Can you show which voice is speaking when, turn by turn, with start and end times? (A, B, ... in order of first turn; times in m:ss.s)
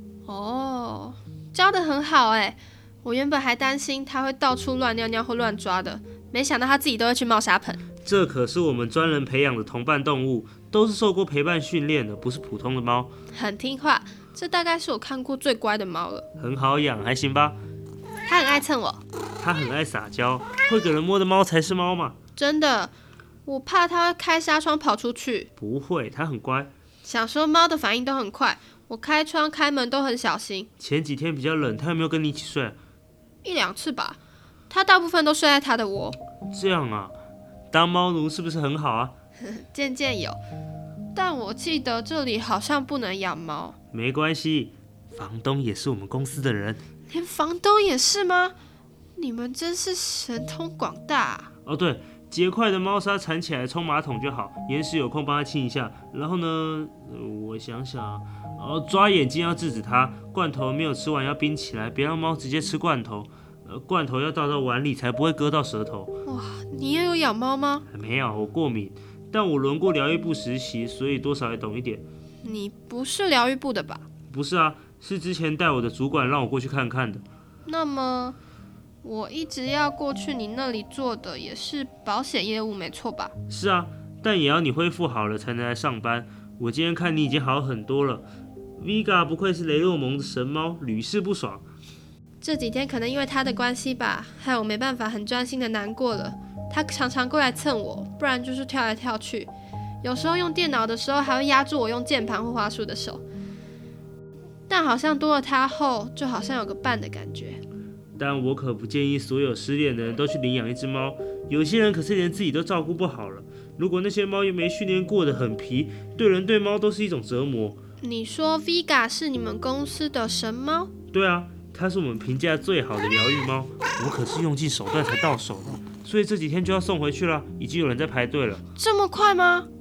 0:00.3-0:07.8 A
0:08.0-0:13.1 B
0:13.3-0:16.2 A
0:16.4-0:17.6 B
0:18.3-0:19.0 A
0:19.4-0:22.2 B
0:22.4-0:22.9 A
0:23.4-0:25.5 A
0:25.6-0:26.7 B
0:27.0-0:30.7 A
0:30.8-0:32.8 B
0:33.4-0:36.2 A
0:36.5-0:37.1 B
0:37.7-0:39.1 B
0:39.4-0:40.4 A
0:41.1-0:43.8 A
0:43.9-0:46.8 B
0:47.1-0:48.5 A
0:49.2-0:51.5 A
0:51.6-1:06.1 B
1:06.2-1:07.9 A
1:07.9-1:12.0 B
1:12.4-1:14.0 A
1:14.3-1:17.2 B
1:17.6-1:18.4 A
1:19.0-1:23.3 A
1:23.5-1:28.2 B
1:28.8-1:31.6 B
1:32.4-1:39.5 A
1:40.0-1:43.2 A
1:44.7-1:47.6 A
1:48.2-1:57.8 B
1:58.0-2:00.9 A
2:01.1-2:08.6 B
2:08.7-2:09.7 A